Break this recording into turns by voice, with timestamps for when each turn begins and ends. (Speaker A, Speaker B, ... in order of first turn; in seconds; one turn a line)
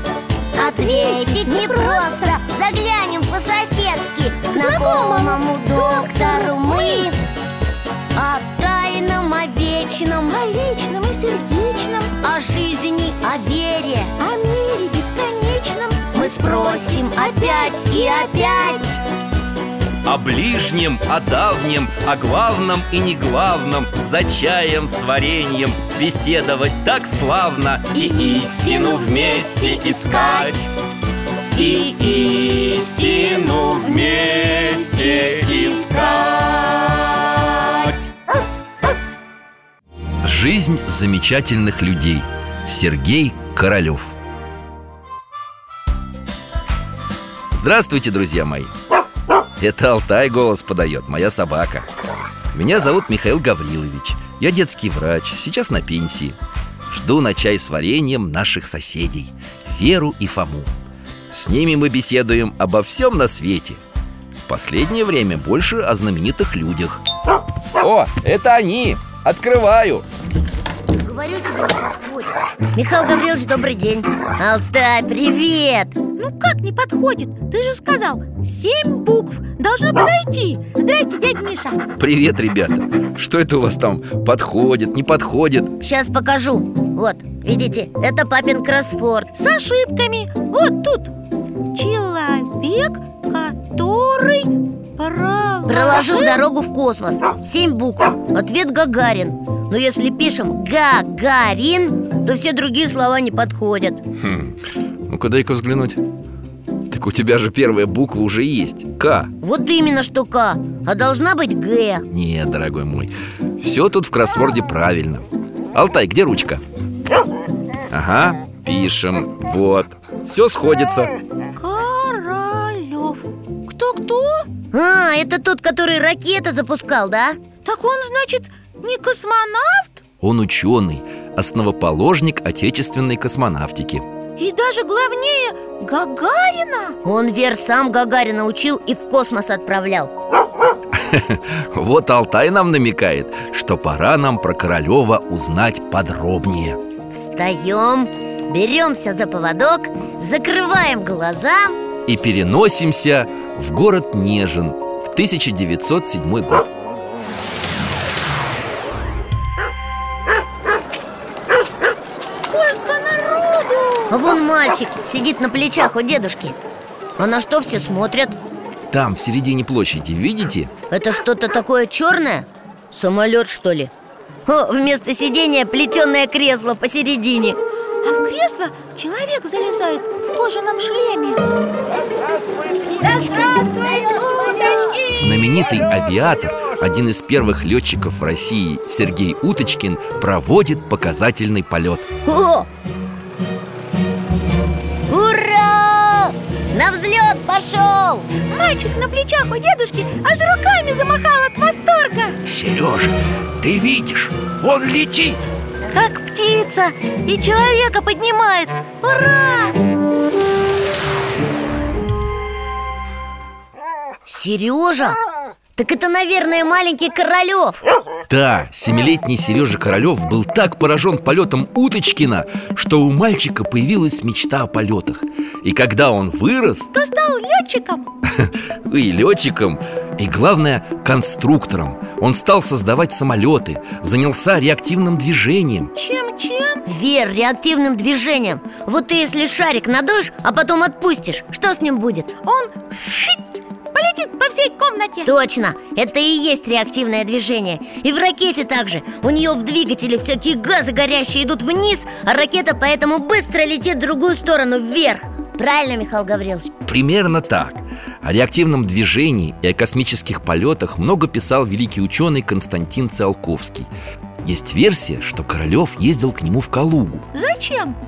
Speaker A: 0.6-7.2
Speaker B: 0.6-2.4
Speaker B: 4.5-7.1
Speaker A: 8.1-10.4
Speaker B: 10.3-12.1
Speaker A: 12.2-14.1
Speaker B: 14.2-16.2
Speaker A: 16.1-19.0
Speaker B: 16.8-17.9
Speaker C: 20.0-30.7
Speaker A: 28.1-30.5
Speaker A: 31.6-37.7
Speaker C: 31.8-36.3
Speaker C: 40.2-44.1
Speaker C: 47.5-48.7
Speaker C: 49.6-51.9
Speaker C: 52.5-56.4
Speaker C: 56.9-60.7
Speaker C: 61.3-63.8
Speaker C: 64.5-67.0
Speaker C: 67.8-70.0
Speaker A: 70.9-76.0
Speaker B: 76.2-81.8
Speaker C: 82.0-85.8
Speaker A: 85.8-89.3
Speaker B: 89.3-91.1
Speaker B: 91.7-96.4
Speaker A: 95.7-104.0
Speaker C: 104.2-106.0
Speaker C: 106.9-109.3
Speaker A: 109.4-112.0
Speaker C: 112.1-116.6
Speaker C: 117.9-121.1
Speaker B: 121.5-124.5
Speaker A: 124.7-127.4
Speaker B: 127.6-130.0
Speaker C: 130.2-134.0
Speaker B: 134.4-137.0
Speaker A: 137.0-140.1
Speaker C: 140.9-146.8
Speaker A: 147.1-151.7
Speaker C: 152.1-156.7
Speaker B: 162.3-164.2
Speaker A: 164.1-166.6
Speaker A: 167.2-168.3
Speaker C: 168.9-170.7
Speaker A: 170.9-173.9
Speaker A: 174.4-177.6
Speaker B: 178.0-181.4
Speaker B: 183.0-185.0
Speaker C: 185.1-192.1
Speaker A: 192.2-192.7
Speaker A: 195.1-198.3
Speaker B: 198.4-202.4
Speaker C: 202.4-205.4
Speaker B: 205.9-209.8
Speaker A: 214.2-215.2
Speaker A: 215.8-217.8
Speaker C: 218.3-226.9
Speaker B: 226.9-228.1
Speaker C: 228.2-235.9
Speaker B: 235.9-236.8
Speaker A: 236.9-242.3
Speaker B: 242.4-245.3
Speaker A: 245.2-256.7
Speaker C: 256.8-263.9
Speaker C: 264.4-267.2
Speaker B: 267.3-268.0